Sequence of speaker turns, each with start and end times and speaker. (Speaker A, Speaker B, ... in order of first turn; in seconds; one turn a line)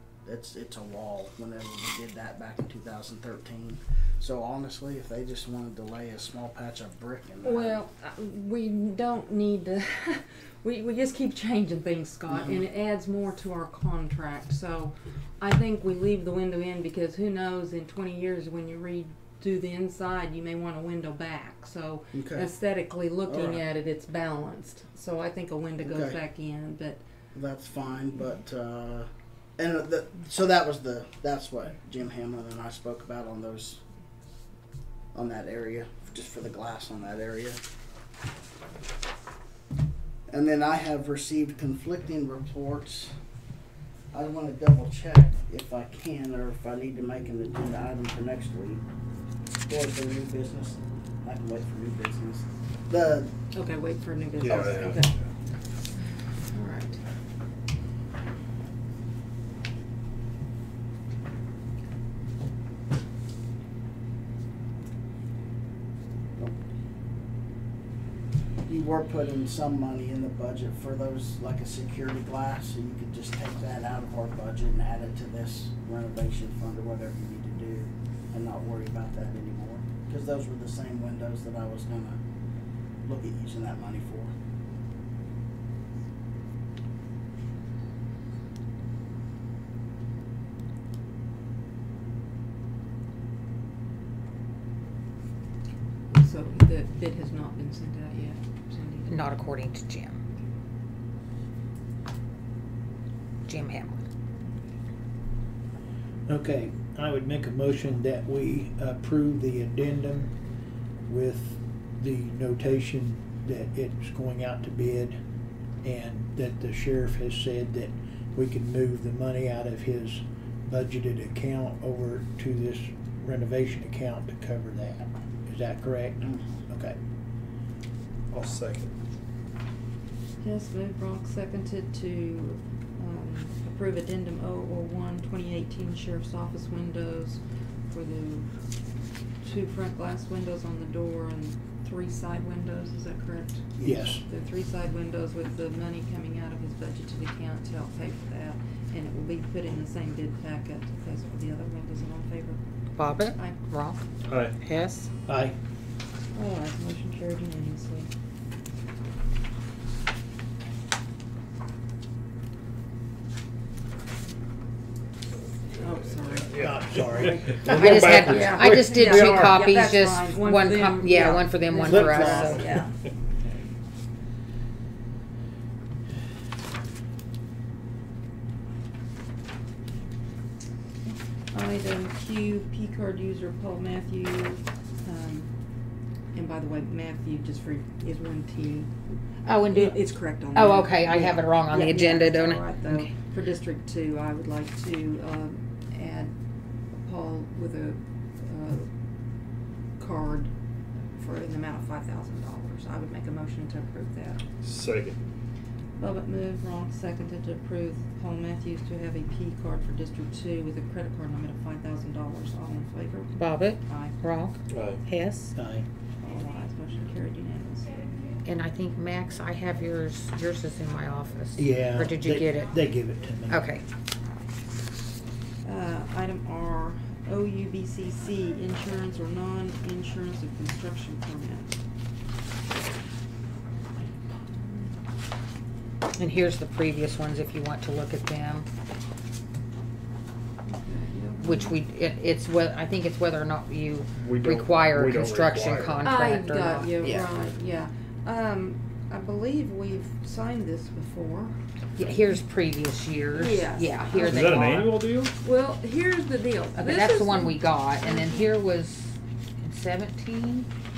Speaker A: 0.2-7.8
Speaker B: 7.4-27.0
Speaker A: 22.1-22.5
Speaker A: 23.3-23.6
Speaker A: 25.8-26.2
Speaker A: 27.3-33.8
Speaker A: 35.1-37.6
Speaker A: 40.3-43.1
Speaker A: 44.1-48.8
Speaker A: 49.7-53.3
Speaker B: 53.5-55.1
Speaker C: 54.4-55.2
Speaker A: 54.5-55.0
Speaker B: 56.5-57.0
Speaker A: 68.7-82.2
Speaker A: 83.0-84.3
Speaker B: 96.1-99.3
Speaker D: 99.1-100.2
Speaker D: 103.5-104.0
Speaker E: 106.3-110.3
Speaker E: 111.1-115.2
Speaker E: 115.8-127.0
Speaker A: 126.2-126.5
Speaker C: 128.3-128.9
Speaker B: 130.4-138.5
Speaker B: 139.4-152.6
Speaker E: 143.8-144.2
Speaker D: 152.9-154.0
Speaker B: 153.3-153.6
Speaker C: 154.2-154.6
Speaker D: 154.6-155.1
Speaker E: 155.3-155.6
Speaker B: 156.3-158.1
Speaker B: 165.8-172.9
Speaker C: 166.4-169.6
Speaker E: 166.6-167.5
Speaker D: 167.7-172.8
Speaker E: 171.9-172.8
Speaker B: 181.5-185.5
Speaker B: 186.3-188.9
Speaker D: 189.4-193.1
Speaker B: 189.7-196.3
Speaker B: 196.9-198.9
Speaker B: 200.0-200.5
Speaker B: 201.2-204.4
Speaker C: 204.6-205.2
Speaker B: 206.0-214.2
Speaker D: 213.4-215.5
Speaker C: 214.7-215.0
Speaker E: 215.6-215.9
Speaker B: 216.2-218.3
Speaker D: 218.4-222.7
Speaker E: 221.6-223.6
Speaker D: 223.5-223.8
Speaker B: 225.6-231.8
Speaker D: 236.2-238.7
Speaker B: 240.6-241.8
Speaker D: 241.4-247.3
Speaker C: 244.2-246.2
Speaker B: 246.0-251.6
Speaker D: 252.0-255.0
Speaker B: 253.3-254.8
Speaker C: 254.2-255.3
Speaker B: 255.4-258.5
Speaker D: 256.8-260.7